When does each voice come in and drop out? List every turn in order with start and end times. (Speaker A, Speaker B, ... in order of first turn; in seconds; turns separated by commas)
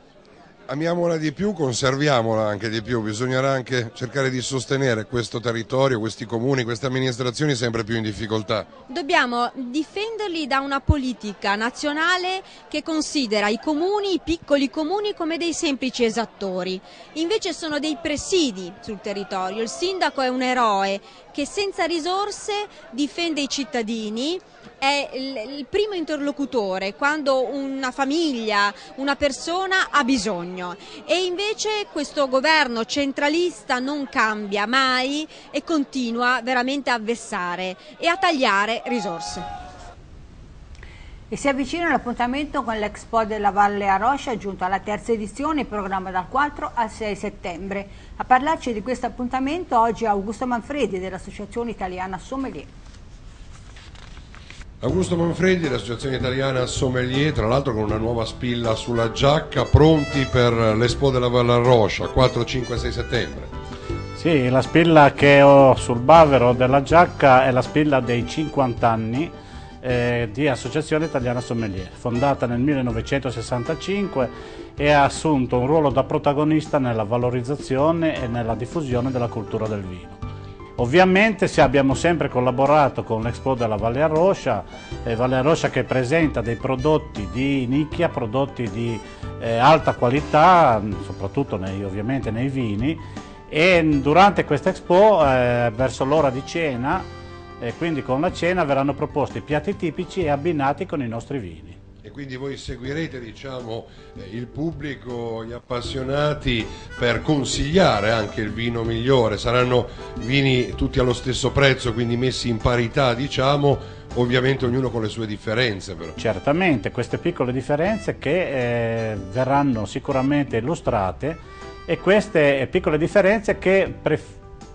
Speaker A: 0.7-8.7, Speaker B: 8.9-39.5, Speaker C: 41.3-52.7, Speaker A: 54.8-63.5, Speaker D: 64.2-80.2, Speaker D: 80.8-97.1, Speaker D: 97.6-101.8, Speaker A: 102.0-116.2, Speaker D: 116.2-124.4